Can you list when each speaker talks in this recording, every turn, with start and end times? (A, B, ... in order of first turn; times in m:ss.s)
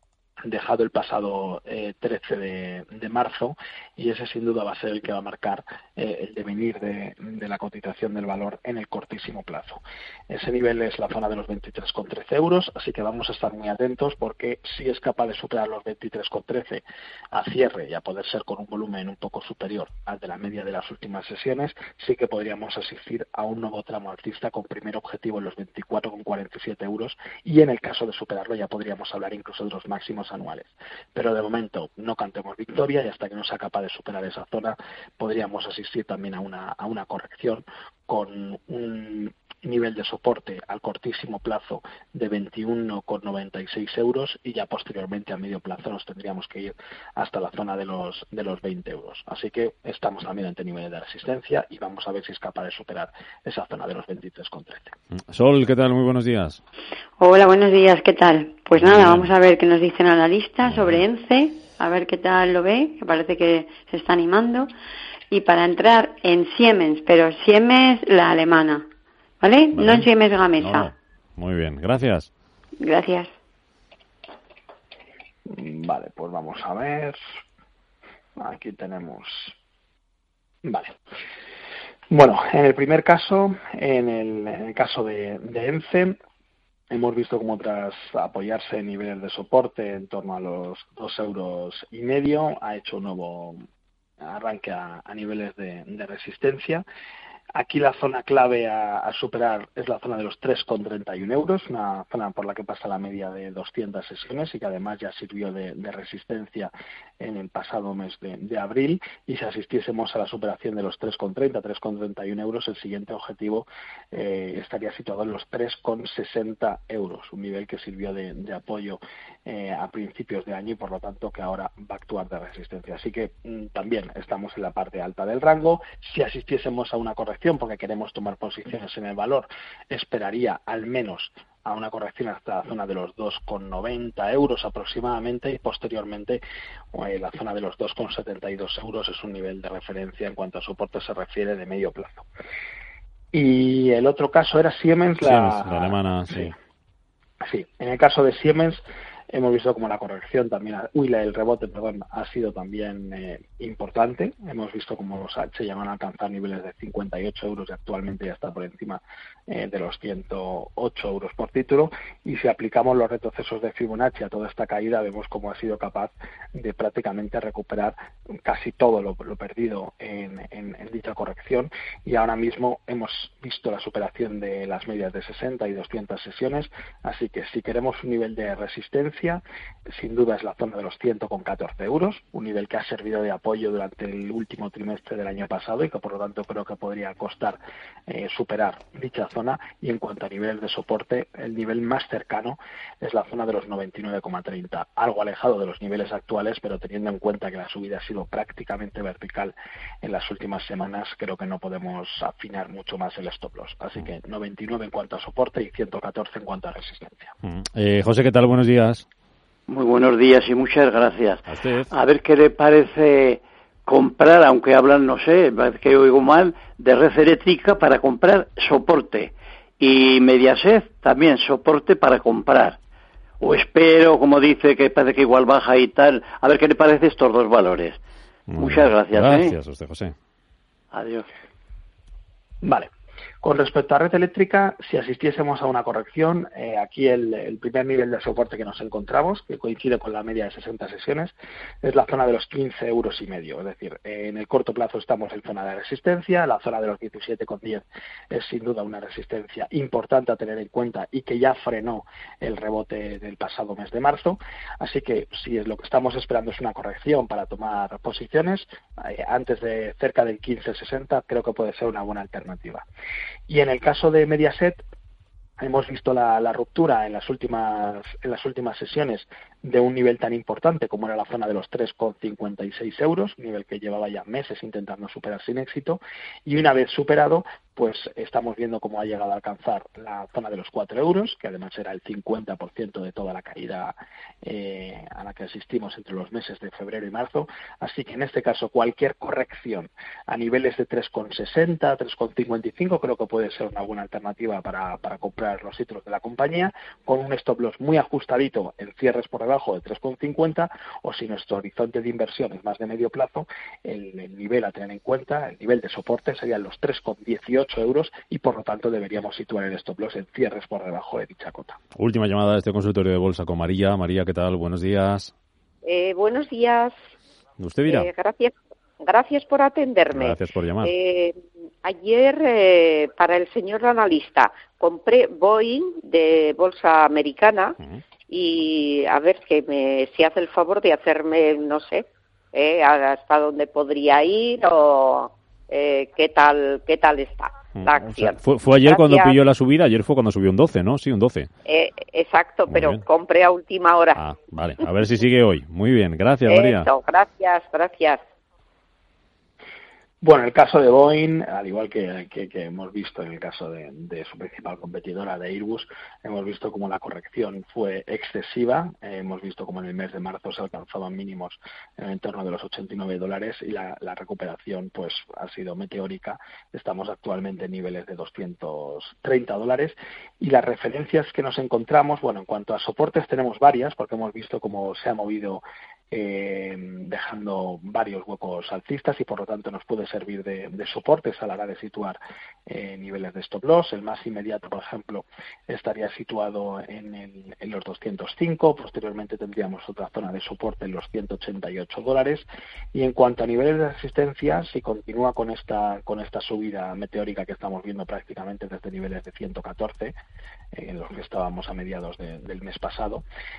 0:00.4-0:54.9 A
0:55.1-0:56.6 B
0:57.2-1:04.7 C
0:58.8-0:59.3 B
1:00.6-1:01.0 B
1:05.3-1:08.9 C
1:09.4-1:10.9 C
1:09.7-1:12.3 B
1:12.8-1:13.3 C
1:15.5-1:17.2 A
1:18.4-1:19.6 A
1:20.6-1:21.0 A
1:22.1-1:26.2 A
1:26.9-1:33.6 A
1:34.2-1:36.8 A
1:37.5-2:16.4 A
2:16.9-2:22.3 A
2:23.3-2:26.5 A
2:25.2-2:26.6 B
2:27.4-3:27.3 A
3:27.4-3:29.0 B
3:29.7-3:42.8 D
3:31.5-3:31.9 B
3:43.4-3:48.0 D
3:48.5-3:50.2 B
3:48.6-3:49.6 D
3:50.9-3:51.3 D
3:52.6-3:52.9 A
3:53.4-4:22.8 A
4:23.5-4:24.8 A
4:25.6-5:11.8 A
5:12.0-5:15.3 B
5:15.8-5:17.0 E
5:17.6-5:18.1 B
5:17.9-5:27.8 E
5:20.1-5:20.9 B
5:28.3-5:39.4 E
5:37.8-5:41.5 B
5:41.7-5:44.2 E
5:42.7-5:43.0 B
5:44.2-5:46.9 B
5:46.5-5:48.2 E
5:50.2-6:40.2 A
6:40.7-6:43.2 A